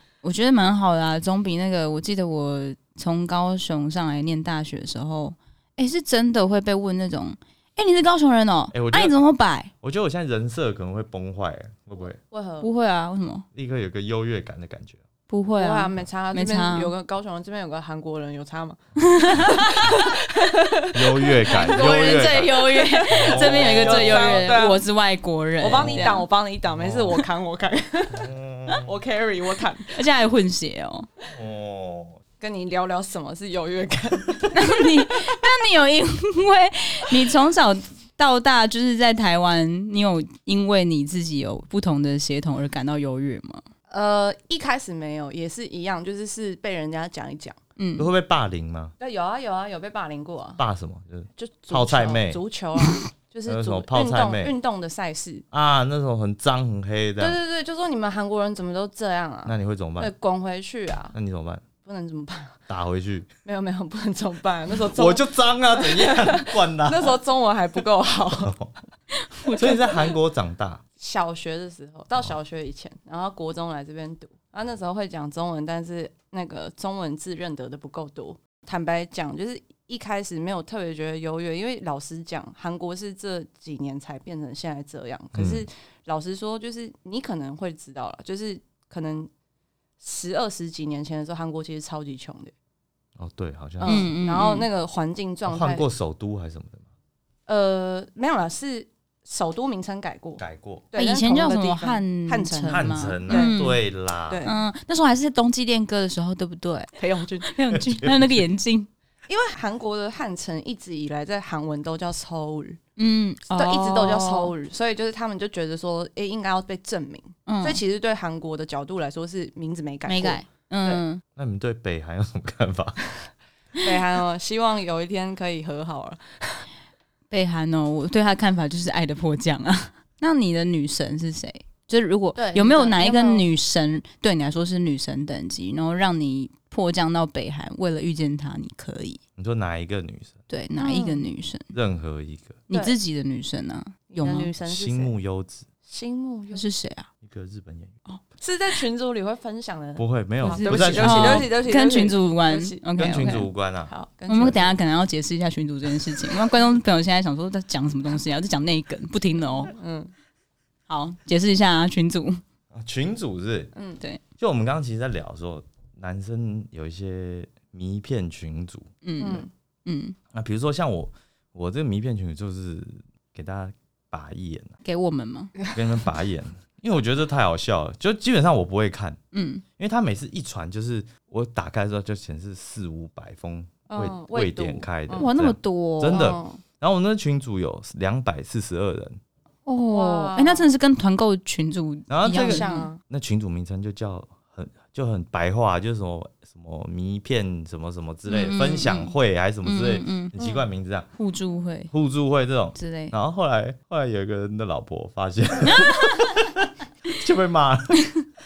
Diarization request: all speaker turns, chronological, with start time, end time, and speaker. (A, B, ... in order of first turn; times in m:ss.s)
0:00.2-0:09.7 A
0:08.7-0:09.2 B
0:09.8-0:12.2 B
0:12.3-0:12.7 C
0:12.6-0:13.5 A
0:13.6-0:15.0 B
0:15.3-0:16.9 A
0:15.6-0:24.8 C
0:19.0-0:20.0 A
0:20.9-0:24.6 B
0:21.5-0:26.3 A
0:25.6-0:28.3 C
0:25.6-0:26.2 B
0:26.8-0:27.2 B
0:28.1-0:28.9 B
0:28.8-0:30.0 C
0:29.9-0:31.1 A
0:31.3-0:32.2 B
0:32.4-0:35.4 C
0:34.5-0:43.7 A
0:43.9-0:47.6 C
0:47.8-0:48.1 A
0:48.0-0:48.9 B
0:49.0-0:50.6 C
0:50.6-0:52.4 B
0:51.4-0:55.4 C
0:53.5-0:54.5 B
0:55.5-0:57.4 B
0:57.2-1:01.2 C
0:59.5-1:00.1 B
1:01.1-1:01.6 B
1:01.8-1:02.6 C
1:02.7-1:03.3 B
1:03.4-1:08.6 C
1:04.8-1:07.2 B
1:08.4-1:08.7 B
1:09.4-1:10.0 A
1:09.5-1:10.8 B
1:11.0-1:29.3 C
1:25.4-1:25.7 B
1:30.0-1:32.5 C
1:33.2-1:34.1 B
1:33.8-1:35.9 C
1:33.8-1:34.7 A
1:35.5-1:36.8 B
1:37.5-1:43.6 C
1:40.4-1:40.9 B
1:41.0-1:43.8 A
1:42.7-1:44.4 B
1:44.3-1:44.6 C
1:44.4-1:48.9 A
1:47.0-1:47.5 C
1:47.7-1:48.4 B
1:49.3-1:52.8 C
1:53.0-1:54.5 A
1:53.5-2:01.0 C
1:57.5-1:57.8 A
2:00.1-2:01.2 A
2:01.4-2:03.0 B
2:03.8-2:06.7 C
2:07.3-2:19.2 A
2:12.4-2:13.4 C
2:19.4-2:20.4 B
2:20.5-2:21.7 A
2:20.8-2:21.2 C
2:21.7-2:22.6 B
2:22.7-2:24.5 A
2:24.2-2:25.1 C
2:24.6-2:25.7 B
2:25.9-2:26.6 C
2:26.5-2:27.1 A
2:27.2-2:28.0 B
2:28.4-2:34.8 C
2:30.0-2:31.5 B
2:30.4-2:33.5 A
2:33.0-2:34.6 B
2:34.3-2:39.8 A
2:39.8-2:40.1 C
2:40.9-2:42.4 A
2:42.7-2:43.7 B
2:43.7-2:44.0 C
2:44.4-2:48.9 B
2:49.0-2:50.2 A
2:49.2-2:49.5 C
2:50.3-2:54.8 B
2:54.8-2:55.6 A
2:55.7-2:59.2 B
2:59.3-2:59.6 A
2:59.8-3:09.2 B
3:03.9-3:05.3 C
3:05.2-3:06.2 A
3:06.1-3:06.6 C
3:09.7-3:12.9 A
3:09.9-3:10.7 C
3:12.1-3:21.1 B
3:12.3-3:13.0 C
3:18.3-3:20.3 A
3:20.4-3:20.6 C
3:21.2-3:21.9 A
3:21.9-3:28.1 B
3:22.8-3:23.1 A
3:25.6-3:26.3 A